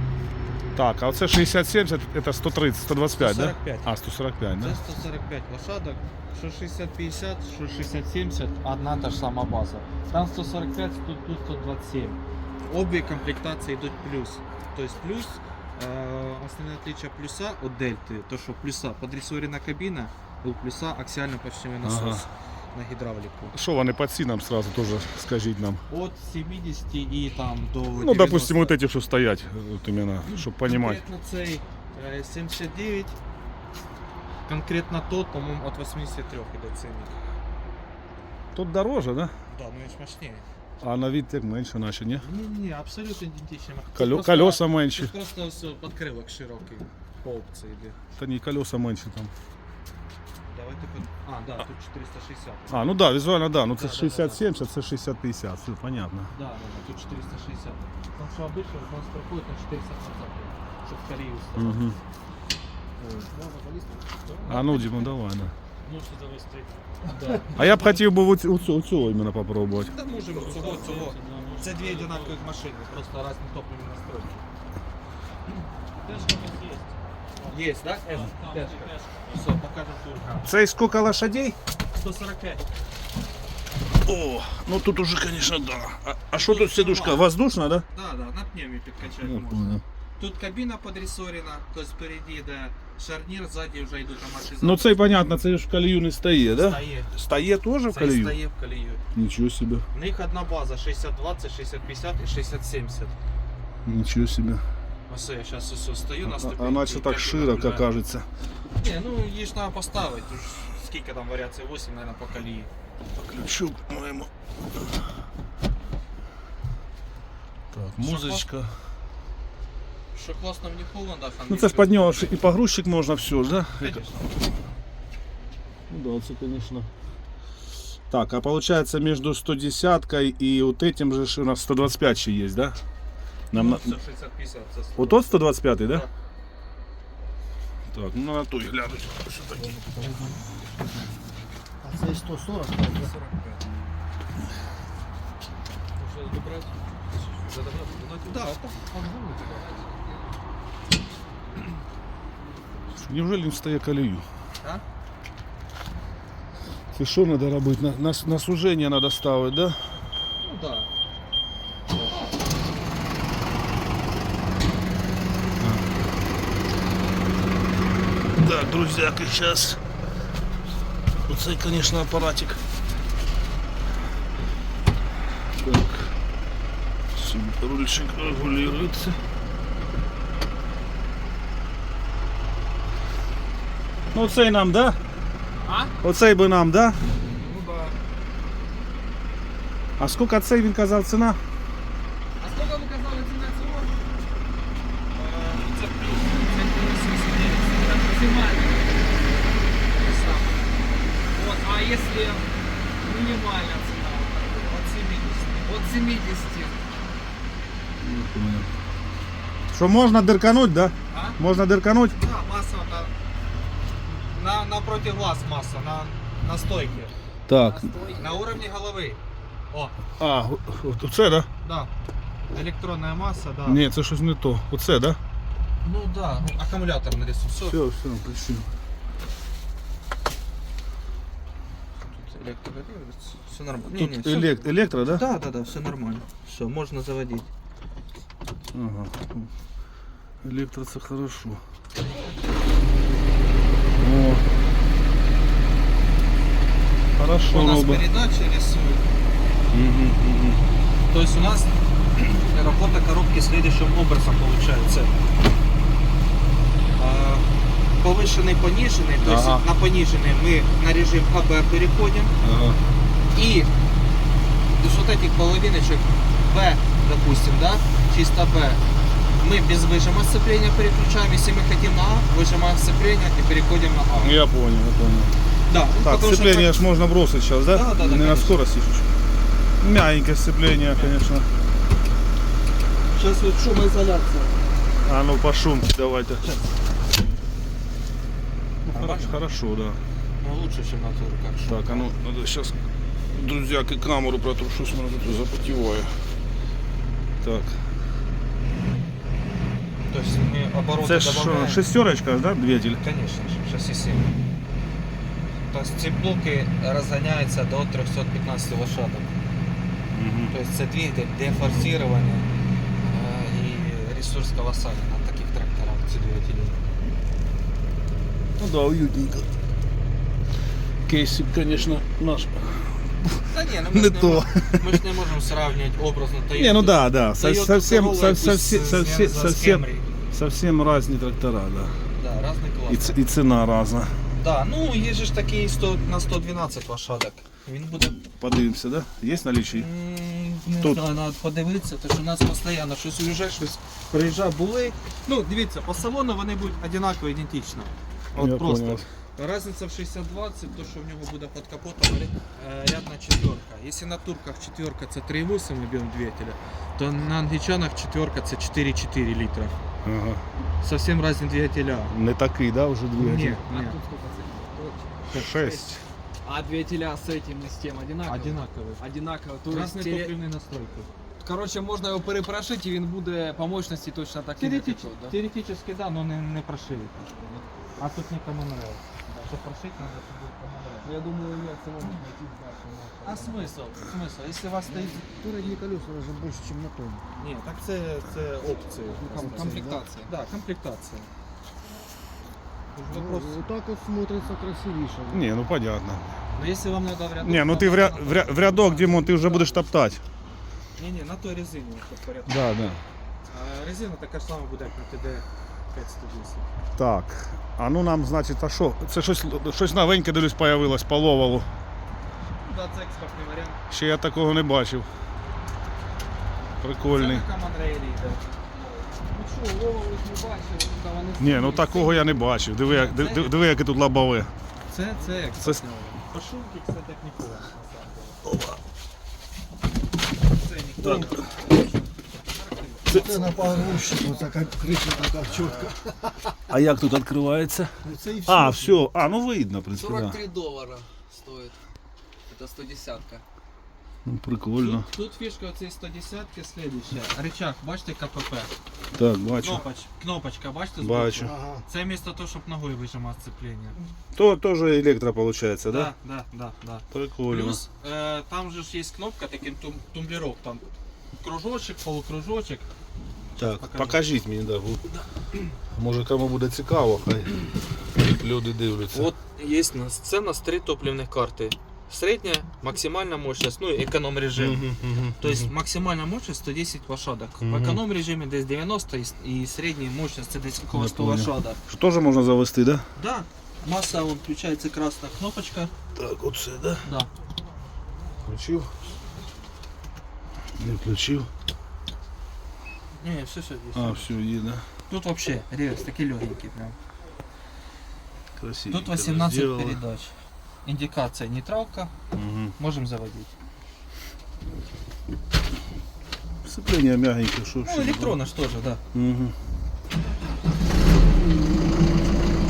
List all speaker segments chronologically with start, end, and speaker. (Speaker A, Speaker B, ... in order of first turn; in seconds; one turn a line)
Speaker A: 0.8-4.8
Speaker B: 3.1-3.9
Speaker B: 4.6-23.6
Speaker A: 21.8-22.2
Speaker A: 23.5-25.8
Speaker B: 25.9-28.8
Speaker A: 28.0-31.0
Speaker B: 30.6-33.2
Speaker B: 34.5-37.2
Speaker A: 38.5-39.3
Speaker B: 39.5-40.5
Speaker A: 40.8-42.3
Speaker B: 42.2-48.0
Speaker A: 44.0-45.1
Speaker A: 48.2-49.3
Speaker B: 50.5-53.0
Speaker A: 52.7-56.3
Speaker B: 53.7-54.5
Speaker B: 56.3-61.9
Speaker A: 61.6-62.0
Speaker C: 63.0-64.2
Speaker B: 64.3-65.1
Speaker A: 64.5-65.5
Speaker D: 65.8-66.8
Speaker B: 67.0-68.0
Speaker A: 67.5-69.9
Speaker B: 69.9-74.4
Speaker D: 70.3-72.5
Speaker D: 76.0-79.4
Speaker B: 77.5-80.5
Speaker A: 80.4-81.6
Speaker B: 81.9-82.7
Speaker A: 84.0-87.9
Speaker B: 86.3-87.3
Speaker B: 87.9-95.0
Speaker A: 89.2-89.8
Speaker A: 94.6-98.4
Speaker B: 96.5-97.1
Speaker B: 97.9-99.0
Speaker A: 99.2-99.8
Speaker B: 99.9-103.2
Speaker A: 103.8-104.6
Speaker B: 105.1-107.9
Speaker A: 106.2-108.3
Speaker B: 108.8-112.7
Speaker A: 113.2-114.3
Speaker A: 117.7-118.7
Speaker B: 118.0-118.5
Speaker B: 120.1-122.3
Speaker A: 121.5-124.0
Speaker B: 123.8-124.4
Speaker A: 125.9-126.9
Speaker A: 128.1-132.8
Speaker A: 133.5-133.9
Speaker B: 133.5-135.2
Speaker A: 135.0-136.1
Speaker A: 137.9-139.7
Speaker B: 139.6-140.4
Speaker C: 141.8-143.1
Speaker B: 143.0-143.6
Speaker D: 146.0-148.4
Speaker B: 148.2-148.9
Speaker D: 149.4-150.2
Speaker A: 153.0-154.2
Speaker A: 156.9-159.8
Speaker B: 160.4-160.9
Speaker A: 165.6-165.9
Speaker A: 168.3-169.8
Speaker A: 171.3-172.6
Speaker A: 175.6-176.1
Speaker A: 177.1-179.2
Speaker A: 184.1-185.0
Speaker D: 185.6-185.9
Speaker A: 186.0-187.0
Speaker D: 187.3-188.0
Speaker A: 190.0-191.4
Speaker D: 192.4-193.9
Speaker B: 195.1-198.0
Speaker D: 197.8-198.9
Speaker B: 200.0-200.7
Speaker D: 201.3-202.4
Speaker D: 203.0-204.2
Speaker B: 204.1-205.7
Speaker D: 205.6-206.8
Speaker A: 208.0-208.7
Speaker A: 209.7-212.2
Speaker B: 211.1-211.4
Speaker B: 212.2-213.1
Speaker B: 214.4-217.1
Speaker A: 217.5-217.9
Speaker D: 217.5-218.6
Speaker B: 218.2-219.2
Speaker A: 220.2-221.5
Speaker B: 221.6-221.9
Speaker B: 222.5-223.8
Speaker A: 223.7-225.2
Speaker B: 225.8-227.8
Speaker A: 227.6-228.7
Speaker B: 232.1-237.5
Speaker A: 233.9-235.2
Speaker A: 238.7-239.5
Speaker A: 240.4-241.6
Speaker A: 244.0-244.4
Speaker A: 247.2-248.0
Speaker B: 247.5-249.1
Speaker A: 249.7-250.6
Speaker B: 251.1-255.1
Speaker B: 257.0-257.5
Speaker B: 258.0-262.3
Speaker A: 259.2-259.6
Speaker A: 262.4-262.8
Speaker B: 263.3-263.7
Speaker B: 264.8-268.8
Speaker B: 269.4-274.4
Speaker A: 274.2-275.4
Speaker B: 275.7-276.8
Speaker A: 276.0-279.1
Speaker B: 277.7-278.6
Speaker A: 279.8-281.5
Speaker B: 280.9-281.2
Speaker B: 283.1-284.5
Speaker A: 285.0-286.5
Speaker A: 288.9-290.0
Speaker B: 288.9-289.4
Speaker B: 290.4-292.1
Speaker A: 291.7-292.8
Speaker A: 293.3-296.1
Speaker A: 297.4-297.8
Speaker B: 300.1-301.8
Speaker A: 301.0-303.0
Speaker B: 303.0-304.3
Speaker B: 305.7-309.3
Speaker A: 310.1-310.5
Speaker B: 310.5-312.5
Speaker B: 313.0-316.8
Speaker A: 318.6-319.5
Speaker A: 321.1-325.0
Speaker B: 323.5-330.1
Speaker A: 326.6-331.9
Speaker B: 332.2-333.2
Speaker A: 332.9-334.1
Speaker B: 334.4-338.2
Speaker A: 338.1-339.9
Speaker B: 339.7-359.8
Speaker A: 348.4-349.1
Speaker A: 360.0-360.4
Speaker B: 360.8-362.1
Speaker A: 362.1-363.6
Speaker B: 363.1-364.0
Speaker D: 363.7-365.8
Speaker A: 365.3-366.0
Speaker D: 366.4-370.3
Speaker B: 368.3-369.0
Speaker B: 369.7-371.1
Speaker D: 371.4-375.4
Speaker B: 374.6-377.3
Speaker B: 378.0-381.1
Speaker D: 381.0-383.8
Speaker B: 383.2-385.3
Speaker C: 385.0-387.2
Speaker B: 387.4-391.3
Speaker C: 389.1-390.1
Speaker D: 389.3-390.3
Speaker B: 392.9-393.6
Speaker C: 393.0-395.5
Speaker A: 395.3-396.3
Speaker B: 396.6-399.8
Speaker A: 397.4-400.2
Speaker B: 401.0-403.0
Speaker A: 402.5-403.0
Speaker B: 403.5-406.7
Speaker A: 407.0-411.7
Speaker B: 412.6-413.8
Speaker A: 413.9-415.1
Speaker A: 416.8-417.5
Speaker B: 417.1-419.1
Speaker D: 419.3-422.4
Speaker A: 421.4-424.5
Speaker B: 422.8-423.5
Speaker B: 424.9-428.4
Speaker D: 425.1-425.6
Speaker A: 428.4-428.8
Speaker B: 430.5-431.6
Speaker A: 431.0-431.5
Speaker B: 432.5-433.6
Speaker A: 433.1-433.4
Speaker C: 433.1-436.6
Speaker A: 436.7-437.9
Speaker C: 438.0-439.0
Speaker A: 438.5-440.4
Speaker D: 439.9-441.8
Speaker D: 442.5-443.4
Speaker A: 444.2-445.1
Speaker B: 444.8-448.7
Speaker A: 449.1-449.8
Speaker B: 449.6-454.0
Speaker A: 451.0-451.6
Speaker C: 451.4-451.9
Speaker A: 454.4-456.1
Speaker B: 455.9-460.9
Speaker A: 457.1-457.8
Speaker B: 461.4-462.9
Speaker A: 463.6-465.1
Speaker B: 463.8-464.2
Speaker A: 465.9-467.5
Speaker A: 468.1-469.3
Speaker B: 469.1-481.8
Speaker A: 474.6-475.7
Speaker A: 477.6-478.0
Speaker A: 480.9-483.1
Speaker B: 483.2-485.9
Speaker A: 486.2-487.0
Speaker B: 487.0-487.3
Speaker A: 488.5-488.9
Speaker A: 490.8-491.5
Speaker B: 493.2-494.3
Speaker A: 493.9-494.9
Speaker B: 495.1-496.9
Speaker A: 498.6-500.0
Speaker B: 498.9-500.3
Speaker B: 500.9-502.1
Speaker A: 502.3-502.7
Speaker B: 502.8-503.5
Speaker A: 506.6-508.4
Speaker B: 507.8-509.0
Speaker A: 509.1-509.6